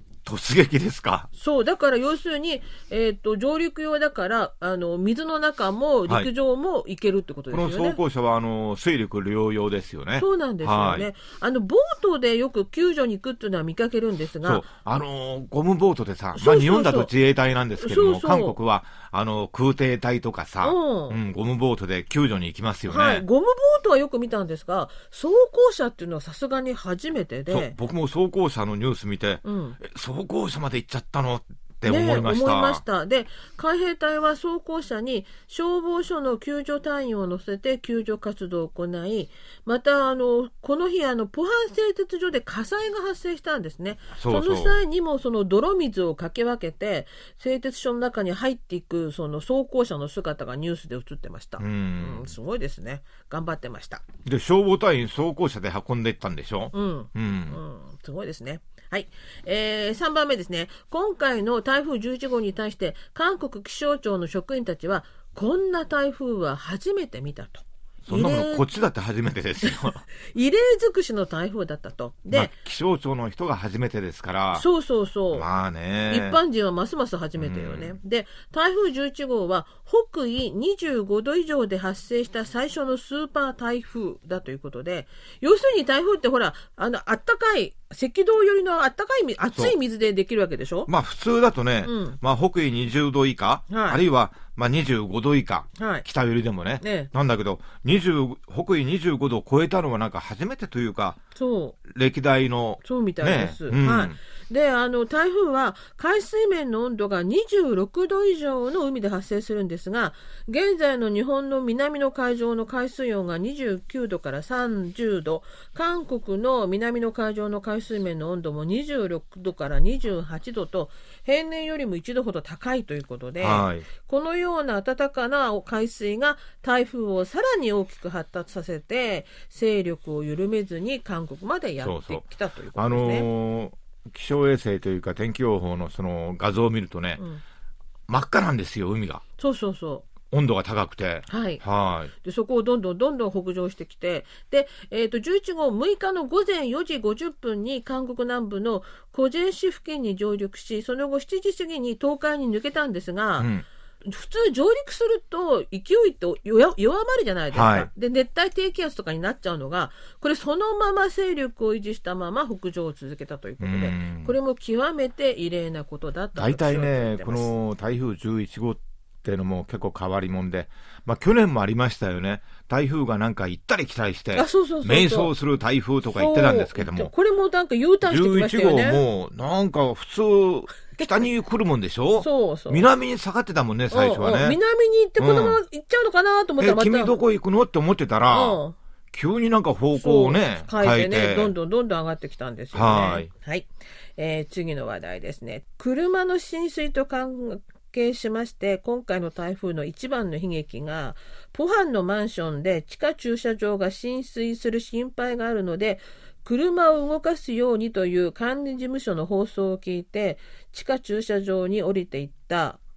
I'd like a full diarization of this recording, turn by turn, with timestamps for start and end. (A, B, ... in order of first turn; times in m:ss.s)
0:00.2-0:01.3 A
0:01.4-0:08.0 B
0:07.5-0:11.1 A
0:10.2-0:14.7 B
0:14.4-0:23.3 A
0:16.4-0:17.1 B
0:17.8-0:18.6 B
0:20.6-0:21.2 B
0:22.9-0:27.8 B
0:27.5-0:32.8 A
0:29.4-0:29.8 B
0:31.9-0:54.0 B
0:44.2-0:44.8 A
0:51.6-0:52.3 A
0:54.2-0:57.6 A
0:56.7-1:08.6 B
1:08.0-1:10.1 A
1:10.2-1:12.5 B
1:12.3-1:14.7 A
1:14.5-1:15.5 B
1:15.3-1:16.4 A
1:16.1-1:30.9 B
1:17.4-1:18.0 A
1:30.9-1:41.2 A
1:31.8-1:32.2 B
1:33.7-1:34.0 B
1:35.8-1:36.0 B
1:36.8-1:37.1 B
1:41.4-1:41.8 B
1:41.8-1:44.2 A
1:42.8-2:13.3 B
2:03.4-2:03.9 A
2:11.8-2:17.2 A
2:18.1-2:19.2 A
2:19.4-2:20.0 B
2:20.3-2:22.1 A
2:21.3-2:21.6 B
2:22.2-2:33.5 B
2:33.4-2:33.6 A
2:34.0-2:47.5 B
2:37.5-2:37.9 A
2:43.6-2:44.3 A
2:46.4-2:57.1 A
2:54.3-2:55.3 B
2:56.1-2:59.0 B
2:58.0-3:04.6 A
3:01.0-3:01.2 B
3:02.2-3:02.9 B
3:03.9-3:07.1 B
3:05.2-3:05.6 A
3:06.6-3:08.6 A
3:08.3-3:08.8 B
3:09.1-3:11.5 A
3:10.0-3:32.8 B
3:12.7-3:13.3 A